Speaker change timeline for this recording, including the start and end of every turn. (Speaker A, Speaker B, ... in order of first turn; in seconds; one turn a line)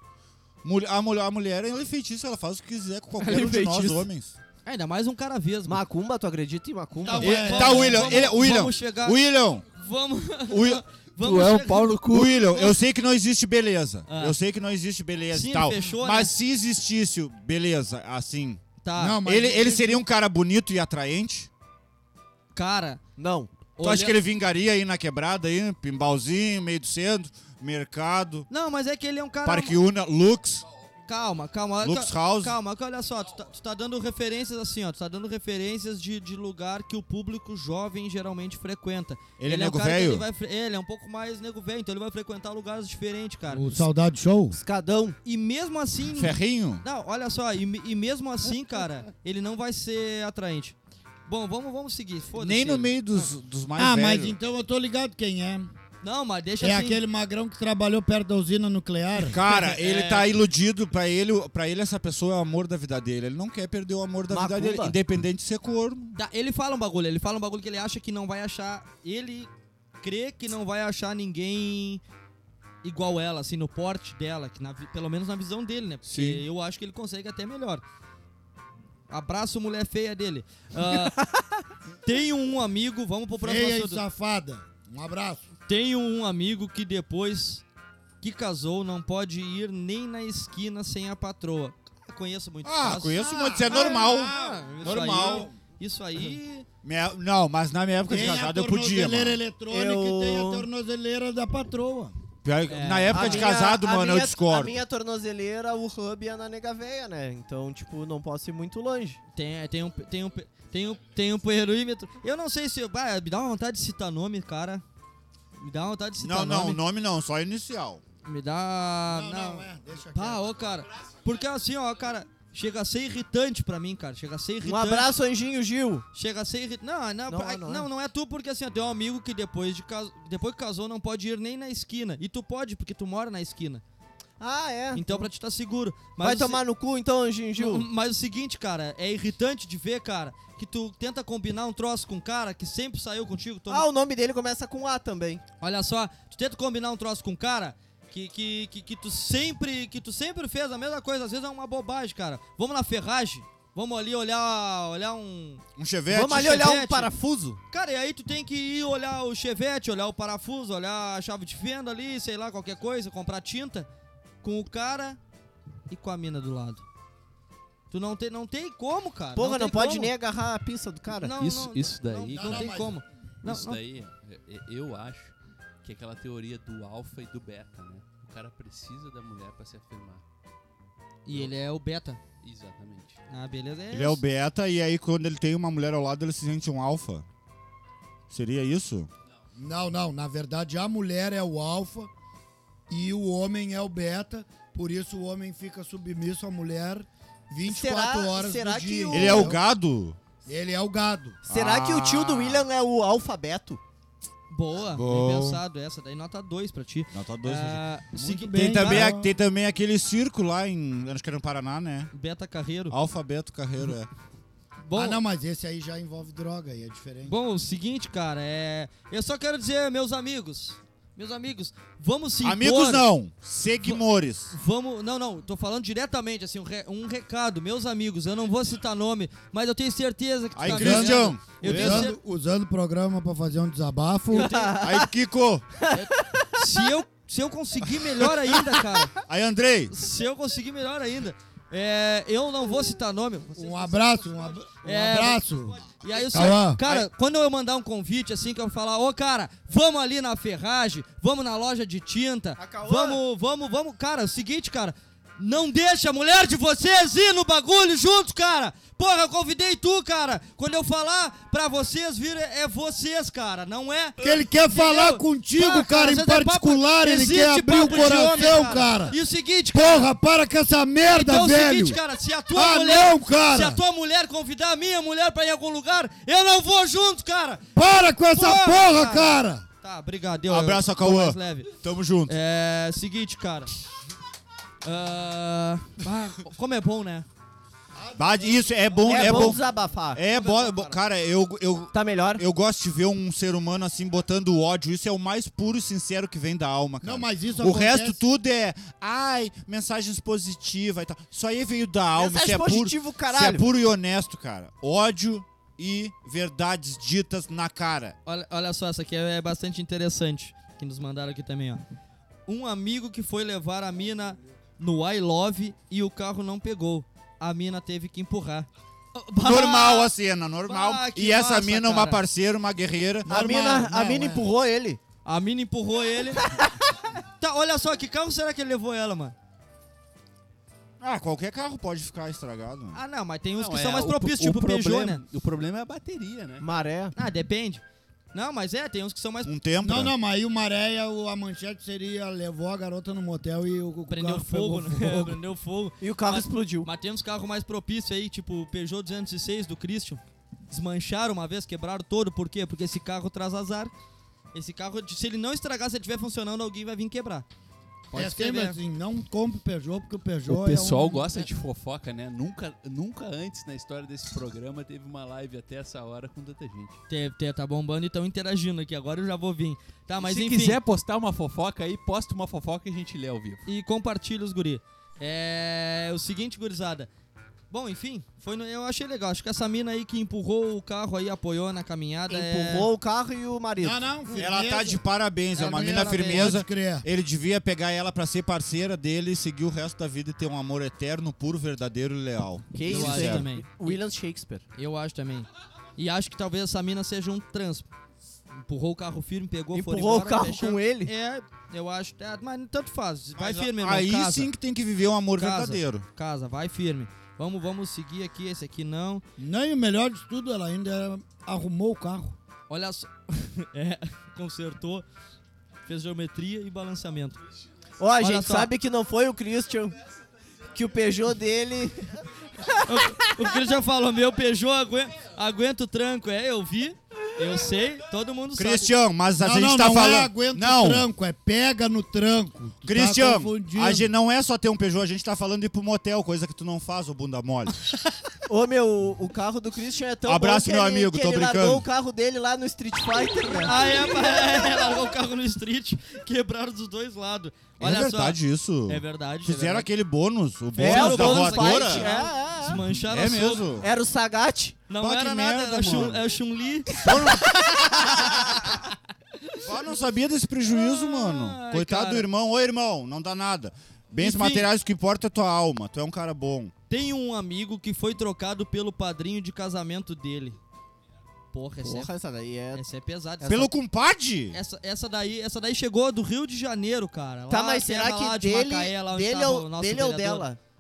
Speaker A: 0.6-4.3
Speaker B: 3.2-4.0
Speaker C: 4.7-5.8
Speaker B: 5.7-8.1
Speaker D: 7.0-8.1
Speaker C: 7.1-9.2
Speaker A: 7.2-9.7
Speaker C: 9.7-12.8
Speaker A: 10.5-18.6
Speaker E: 11.3-12.3
Speaker C: 14.1-14.4
Speaker C: 15.3-16.3
Speaker C: 18.8-19.2
Speaker D: 19.0-20.0
Speaker A: 19.2-21.5
Speaker C: 22.5-23.0
Speaker B: 23.2-23.6
Speaker C: 23.8-24.2
Speaker A: 23.8-28.5
Speaker C: 28.5-29.8
Speaker A: 29.4-30.6
Speaker C: 31.1-43.8
Speaker A: 31.8-32.6
Speaker A: 39.4-40.3
Speaker D: 43.5-44.6
Speaker B: 44.5-45.2
Speaker C: 45.2-50.8
Speaker A: 46.1-46.9
Speaker C: 51.3-53.3
Speaker A: 52.4-54.4
Speaker D: 53.8-55.7
Speaker C: 56.0-57.0
Speaker D: 56.6-59.4
Speaker A: 59.2-66.2
Speaker C: 59.5-60.3
Speaker B: 64.3-65.0
Speaker C: 66.2-69.5
Speaker C: 70.0-72.0
Speaker C: 72.8-77.8
Speaker A: 76.0-76.4
Speaker C: 79.1-81.2
Speaker C: 82.0-84.0
Speaker D: 83.4-85.5
Speaker C: 85.7-87.6
Speaker C: 88.2-96.7
Speaker A: 92.6-95.5
Speaker D: 93.2-95.5
Speaker A: 96.8-99.4
Speaker D: 98.1-102.2
Speaker B: 99.7-100.7
Speaker A: 102.4-104.8
Speaker C: 102.7-103.5
Speaker B: 103.1-109.2
Speaker C: 109.3-114.8
Speaker C: 115.6-116.8
Speaker A: 116.2-118.0
Speaker C: 118.2-125.1
Speaker D: 119.1-120.6
Speaker B: 124.6-126.1
Speaker C: 126.1-133.8
Speaker B: 127.3-127.9
Speaker B: 134.4-135.3
Speaker C: 134.9-136.6
Speaker B: 136.2-137.9
Speaker C: 137.6-143.9
Speaker B: 143.7-145.4
Speaker C: 145.6-155.6
Speaker A: 155.8-156.7
Speaker B: 156.1-157.6
Speaker C: 156.3-157.1
Speaker C: 157.7-163.9
Speaker C: 164.4-165.2
Speaker C: 165.9-166.8
Speaker C: 167.9-170.1
Speaker B: 169.4-171.3
Speaker C: 171.2-173.8
Speaker E: 171.4-172.8
Speaker D: 172.3-173.0
Speaker E: 173.4-180.2
Speaker C: 181.3-182.2
Speaker E: 181.3-181.6
Speaker E: 182.4-183.2
Speaker C: 183.3-184.2
Speaker A: 183.9-187.3
Speaker A: 188.3-189.1
Speaker D: 189.6-192.1
Speaker D: 192.9-199.6
Speaker B: 197.7-199.6
Speaker A: 199.1-200.2
Speaker D: 200.4-201.4
Speaker A: 201.5-202.7
Speaker B: 201.5-203.8
Speaker C: 204.5-209.1
Speaker A: 204.9-205.6
Speaker A: 207.1-207.8
Speaker D: 208.2-209.3
Speaker A: 208.6-212.1
Speaker C: 212.1-213.0
Speaker A: 212.9-214.1
Speaker C: 214.8-215.2
Speaker D: 214.9-217.4
Speaker C: 217.2-223.1
Speaker A: 222.4-224.6
Speaker C: 223.8-232.2
Speaker A: 230.5-232.1
Speaker D: 230.7-234.6
Speaker C: 234.3-234.8
Speaker B: 234.3-235.1
Speaker A: 234.8-235.7
Speaker B: 235.8-236.8
Speaker C: 235.9-239.1
Speaker B: 238.6-239.0
Speaker A: 239.2-239.9
Speaker C: 239.9-270.1
Speaker D: 243.6-246.8
Speaker B: 252.6-253.2
Speaker D: 264.2-269.2
Speaker D: 269.7-272.0
Speaker C: 271.0-277.7
Speaker D: 272.5-273.8
Speaker D: 277.8-279.6
Speaker C: 278.3-281.7
Speaker A: 280.5-282.4
Speaker C: 282.3-283.7
Speaker C: 284.8-287.3
Speaker D: 287.9-289.6
Speaker A: 288.2-289.6
Speaker B: 289.1-290.2
Speaker A: 290.1-308.2
Speaker C: 290.2-291.0
Speaker B: 291.9-292.4
Speaker D: 297.0-298.2
Speaker B: 302.1-303.7
Speaker C: 308.3-311.8
Speaker C: 312.5-320.1
Speaker A: 319.4-323.4
Speaker C: 320.7-322.2
Speaker D: 323.3-324.5
Speaker B: 323.3-325.0
Speaker C: 325.2-326.5
Speaker C: 327.4-329.4
Speaker A: 331.0-333.0
Speaker C: 332.9-335.2
Speaker E: 333.6-336.7
Speaker B: 336.6-337.1
Speaker C: 337.1-337.8
Speaker C: 338.3-339.5
Speaker A: 339.4-340.1
Speaker D: 339.8-345.4
Speaker C: 344.1-353.9
Speaker B: 346.0-346.9
Speaker C: 354.5-357.5
Speaker C: 358.1-358.8
Speaker D: 358.1-361.3
Speaker E: 360.5-367.0
Speaker C: 367.1-370.8
Speaker E: 370.2-373.7
Speaker C: 373.7-377.1
Speaker C: 377.7-382.9
Speaker B: 382.3-384.1
Speaker D: 383.8-385.1
Speaker A: 384.4-393.5
Speaker C: 385.6-386.6
Speaker D: 385.6-387.1
Speaker B: 392.7-394.6
Speaker C: 392.9-394.0
Speaker C: 394.7-397.9
Speaker C: 398.5-404.5
Speaker B: 399.7-401.1
Speaker A: 403.4-406.1
Speaker C: 405.4-409.2
Speaker D: 409.4-412.4
Speaker C: 412.7-415.1
Speaker C: 415.9-417.4
Speaker B: 418.0-420.0
Speaker C: 418.2-418.7
Speaker B: 420.7-422.6
Speaker C: 422.8-428.9
Speaker A: 428.6-431.1
Speaker D: 429.4-434.1
Speaker A: 432.9-437.8
Speaker B: 438.5-444.9
Speaker A: 440.2-441.9
Speaker C: 443.6-449.9
Speaker A: 447.8-452.1
Speaker B: 450.8-452.8
Speaker C: 450.8-453.7
Speaker A: 453.1-453.9
Speaker B: 453.8-454.9
Speaker C: 454.9-458.8
Speaker A: 455.0-456.2
Speaker A: 457.1-457.4
Speaker A: 459.6-466.7
Speaker C: 460.7-462.3
Speaker C: 464.2-464.7
Speaker C: 466.9-470.6
Speaker C: 471.5-472.1
Speaker B: 471.8-472.8
Speaker C: 472.7-473.6
Speaker B: 473.4-473.7
Speaker A: 473.5-474.6
Speaker C: 474.5-480.5
Speaker B: 477.5-480.6